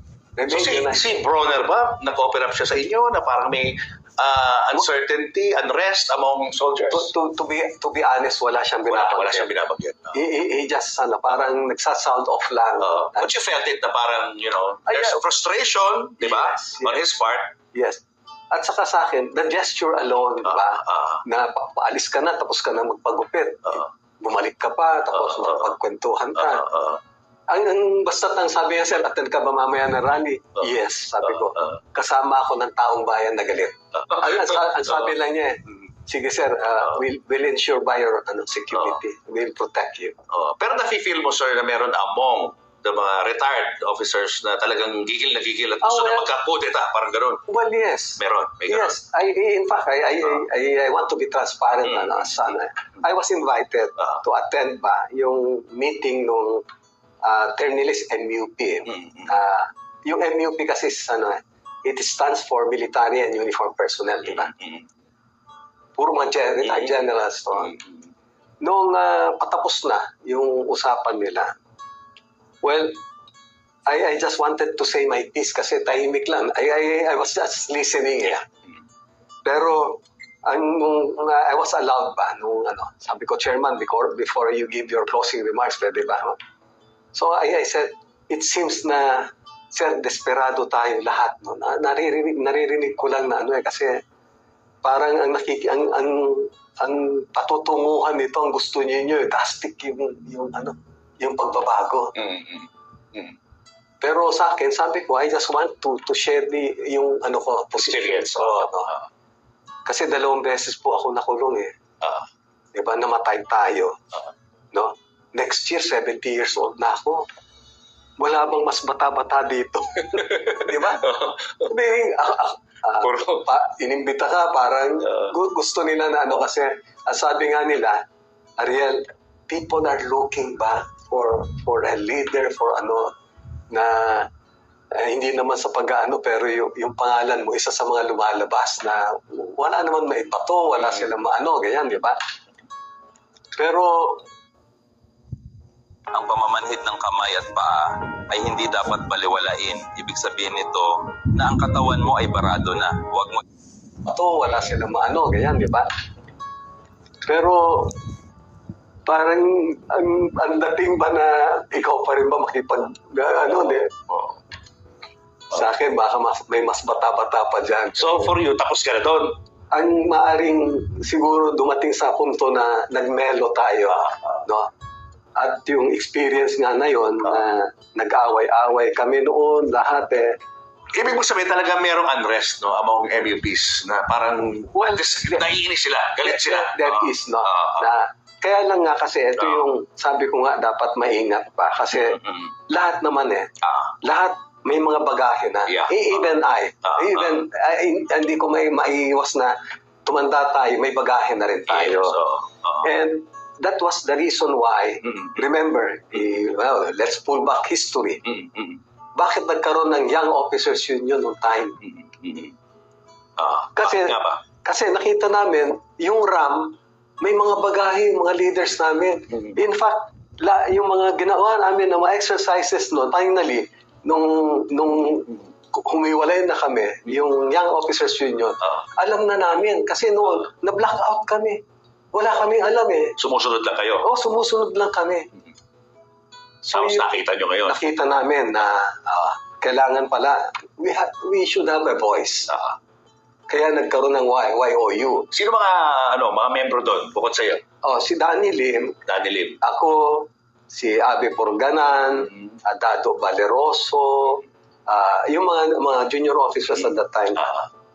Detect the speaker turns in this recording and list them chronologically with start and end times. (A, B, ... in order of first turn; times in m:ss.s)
0:00.4-0:01.2 A
0:00.5-0:07.1 B
0:06.9-0:09.5 A
0:08.9-0:10.2 B
0:10.1-0:13.3 A
0:12.8-0:17.6 B
0:14.9-0:15.2 A
0:16.2-0:17.0 A
0:17.7-0:26.7 A
0:20.5-0:21.2 B
0:25.2-0:25.7 B
0:26.4-0:27.0 B
0:27.5-0:40.2 A
0:31.4-0:31.8 B
0:34.0-0:35.0 B
0:40.3-0:47.4 B
0:45.8-0:46.3 A
0:47.5-0:56.6 A
0:48.2-0:48.9 B
0:51.9-0:52.5 B
0:57.2-1:04.5 A
0:58.9-0:59.3 B
1:04.3-1:04.9 B
1:06.0-1:07.7 A
1:06.7-1:07.0 B
1:07.6-1:08.0 B
1:08.6-1:11.5 A
1:12.6-1:13.0 A
1:13.9-1:18.5 A
1:19.4-1:26.4 A
1:27.1-1:34.0 A
1:34.8-1:42.2 A
1:42.2-1:43.4 B
1:44.0-1:48.9 A
1:47.8-1:49.0 B
1:49.9-1:51.7 A
1:52.7-1:54.0 A
1:54.7-1:57.3 A
1:58.2-2:01.1 A
2:00.2-2:01.7 B
2:01.6-2:08.0 A
2:03.0-2:03.4 B
2:08.6-2:13.1 A
2:13.7-2:14.3 A
2:14.9-2:22.2 A
2:23.6-2:24.2 A
2:26.1-2:33.4 C
2:34.1-2:35.9 A
2:37.2-2:38.0 A
2:39.1-2:43.9 A
2:44.1-2:44.4 B
2:45.5-2:48.3 A
2:48.0-2:49.4 B
2:49.7-2:54.7 A
2:53.9-2:54.4 B
2:55.4-3:00.4 A
3:00.9-3:07.9 B
3:04.7-3:05.4 A
3:06.2-3:13.5 A
3:09.4-3:09.7 B
3:11.9-3:12.5 B
3:13.6-3:13.9 B
3:14.0-3:22.2 A
3:15.7-3:16.3 B
3:16.8-3:17.4 B
3:21.7-3:22.9 B
3:22.8-3:28.2 A
3:25.0-3:25.4 B
3:28.2-3:28.8 B
3:29.2-3:31.8 A
3:31.8-3:32.6 B
3:33.4-3:34.4 B
3:33.8-3:51.6 A
3:52.1-3:53.2 A
3:53.2-3:54.1 B
3:54.0-3:55.3 A
3:56.6-3:57.1 A
3:56.7-3:57.8 B
3:57.6-4:02.5 A
4:02.5-4:02.8 B
4:03.5-4:05.3 A
4:05.3-4:07.6 B
4:07.8-4:09.0 A
4:09.1-4:09.6 B
4:09.6-4:17.5 A
4:17.4-4:17.7 B